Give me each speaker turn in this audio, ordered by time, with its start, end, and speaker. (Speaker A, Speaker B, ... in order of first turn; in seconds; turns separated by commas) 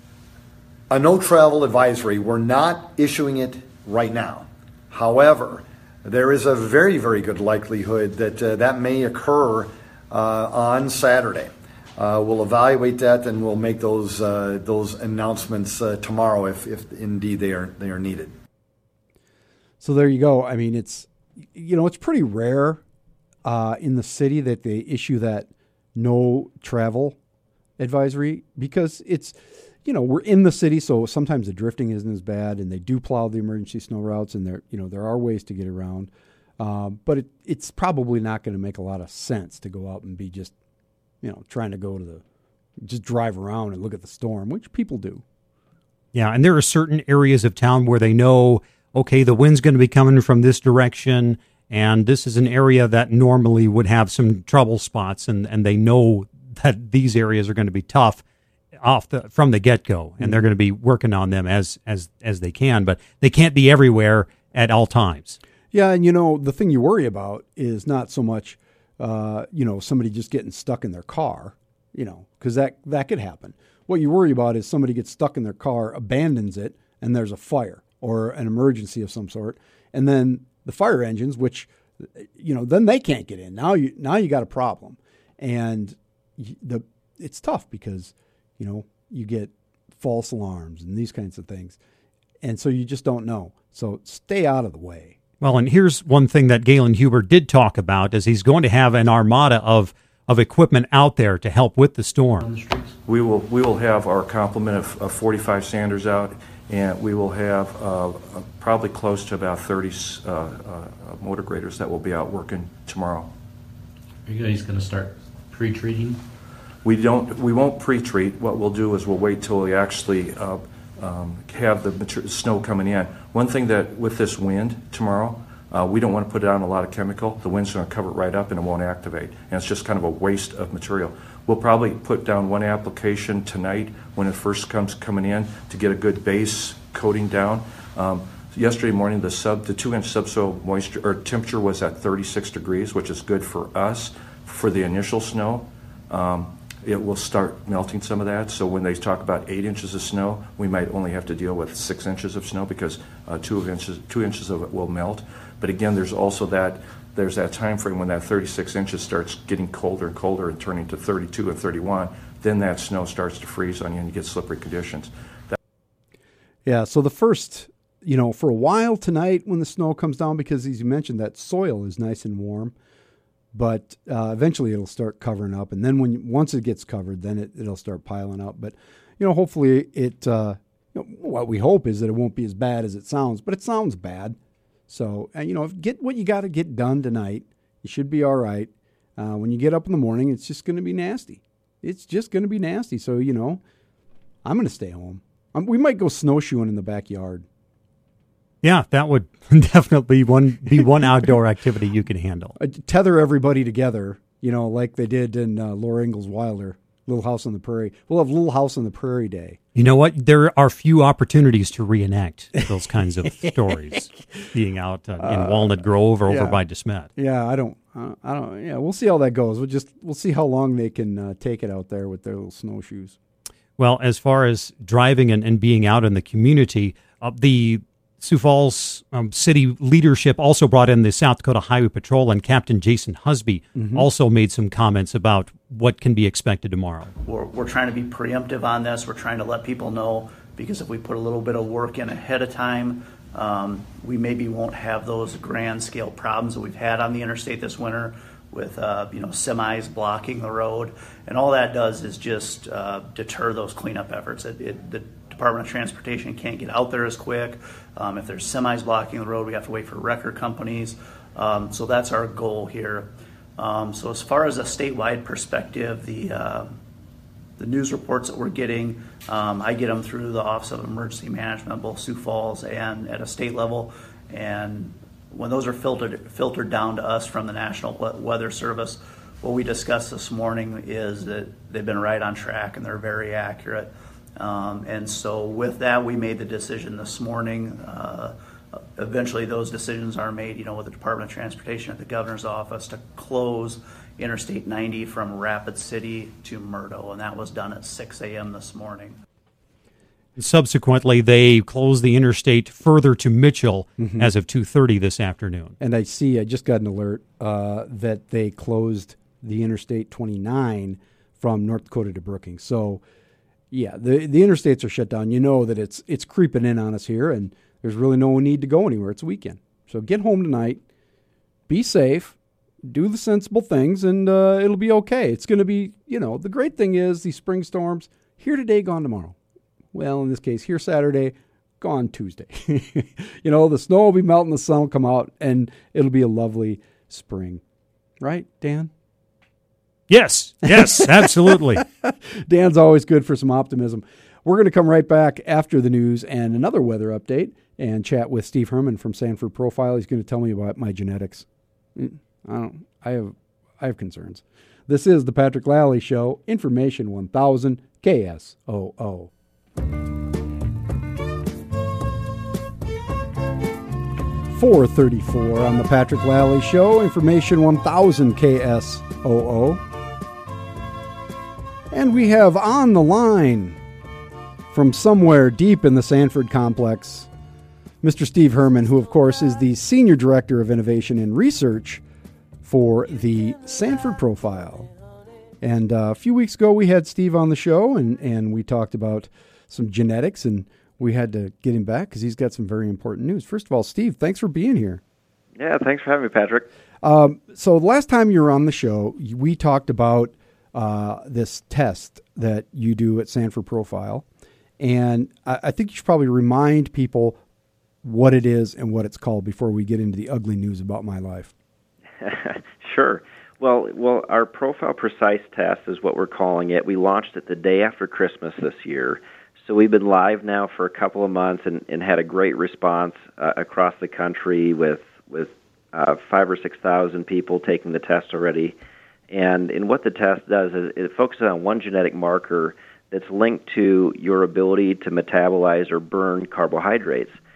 Speaker A: 0.9-18.3, Speaker B: 19.8-22.8, Speaker B: 23.4-27.2, Speaker B: 27.8-40.5, Speaker B: 41.2-42.2, Speaker B: 42.8-45.2, Speaker C: 46.1-58.2, Speaker C: 58.8-65.4, Speaker B: 65.7-91.8, Speaker B: 92.4-95.2, Speaker C: 95.4-102.5, Speaker D: 102.4-103.0, Speaker E: 103.1-113.3, Speaker D: 114.3-116.2, Speaker E: 116.8-165.6, Speaker B: 166.7-172.7, Speaker B: 173.5-184.4, Speaker B: 184.9-193.6, Speaker B: 194.4-197.4, Speaker C: 198.6-202.6, Speaker B: 202.6-209.6, Speaker C: 209.8-217.1, Speaker B: 213.3-213.5, Speaker B: 215.2-216.6, Speaker B: 217.2-223.2, Speaker C: 223.8-237.1, Speaker B: 233.8-234.1, Speaker F: 237.2-266.8, Speaker F: 267.6-299.2, Speaker C: 300.4-305.8, Speaker B: 304.0-304.3, Speaker B: 305.8-313.0, Speaker B: 313.7-320.8, Speaker B: 321.7-329.4, Speaker B: 329.9-337.6, Speaker B: 338.2-338.9, Speaker C: 340.1-341.8, Speaker B: 340.6-359.3, Speaker B: 364.5-369.8, Speaker B: 371.9-373.8, Speaker B: 374.7-377.3, Speaker B: 378.0-382.0, Speaker B: 382.6-384.9, Speaker B: 385.6-395.0, Speaker G: 395.6-396.7, Speaker B: 397.0-404.2, Speaker B: 404.8-407.4, Speaker B: 408.0-411.5, Speaker G: 412.2-428.8, Speaker G: 429.3-437.4